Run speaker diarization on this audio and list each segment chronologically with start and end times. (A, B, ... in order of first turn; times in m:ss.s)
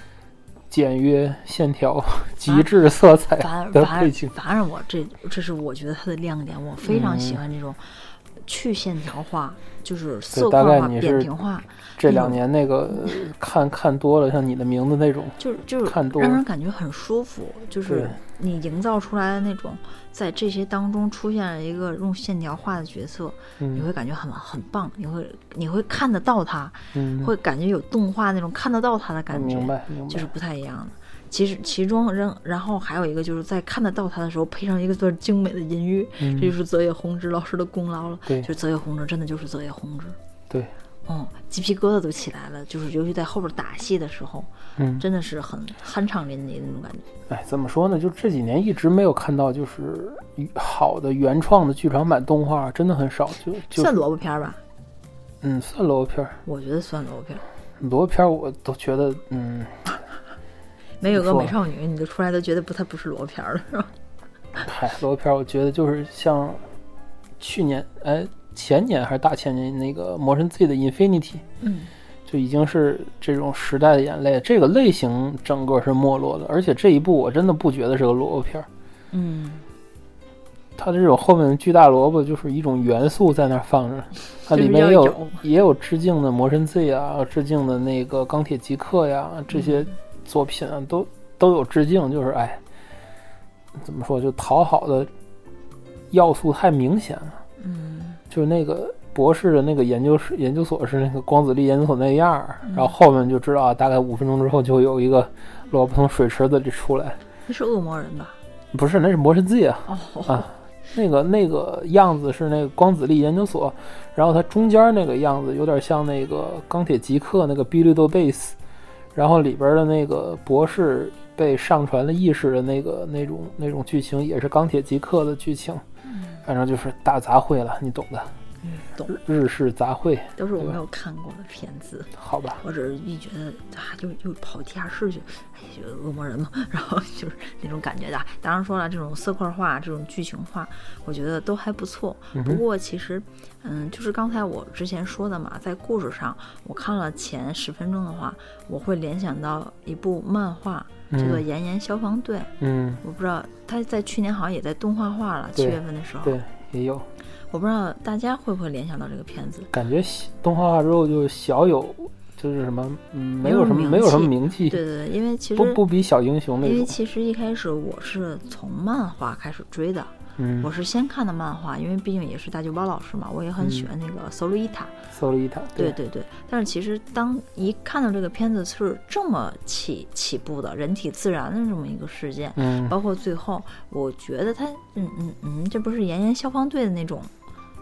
0:00.7-0:04.3 A
0:03.4-0:12.4 B
0:06.8-0:07.4 A
0:10.3-0:11.3 A
0:12.0-0:16.4 A
0:15.4-0:40.2 B
0:17.9-0:18.2 A
0:23.6-0:23.9 A
0:26.9-0:27.3 A
0:29.3-0:30.3 A
0:36.2-0:36.5 A
0:41.1-0:47.1 B
0:44.8-0:45.0 A
0:47.3-0:53.9 A
0:53.7-0:54.6 B
0:55.4-0:56.4 A
0:56.4-0:57.4 B
0:57.8-0:59.8 A
1:01.0-1:03.9 B
1:01.0-1:01.6 A
1:04.6-1:06.6 A
1:07.4-1:11.4 A
1:11.6-1:11.9 B
1:12.3-1:18.7 A
1:19.1-1:19.6 B
1:20.8-1:32.6 A
1:24.4-1:25.4 B
1:29.5-1:29.9 B
1:33.8-1:35.1 A
1:36.1-1:37.4 A
1:37.6-1:38.2 B
1:38.3-1:47.2 A
1:42.6-1:42.9 B
1:47.4-1:48.4 B
1:48.7-1:58.6 A
1:49.9-1:50.5 B
1:59.2-2:05.8 A
2:06.1-2:06.4 B
2:06.4-2:08.3 A
2:08.6-2:09.2 B
2:09.1-2:10.8 A
2:10.4-2:36.4 B
2:12.2-2:12.6 A
2:22.4-2:22.6 A
2:31.1-2:31.4 A
2:32.6-2:33.0 A
2:35.6-2:37.1 A
2:37.5-2:39.7 B
2:39.7-2:44.8 A
2:43.4-2:45.8 B
2:45.6-2:47.0 A
2:46.6-2:55.0 B
2:50.4-2:50.7 A
2:53.6-2:53.9 A
2:55.1-2:56.0 A
2:55.8-3:07.3 B
3:02.6-3:03.0 A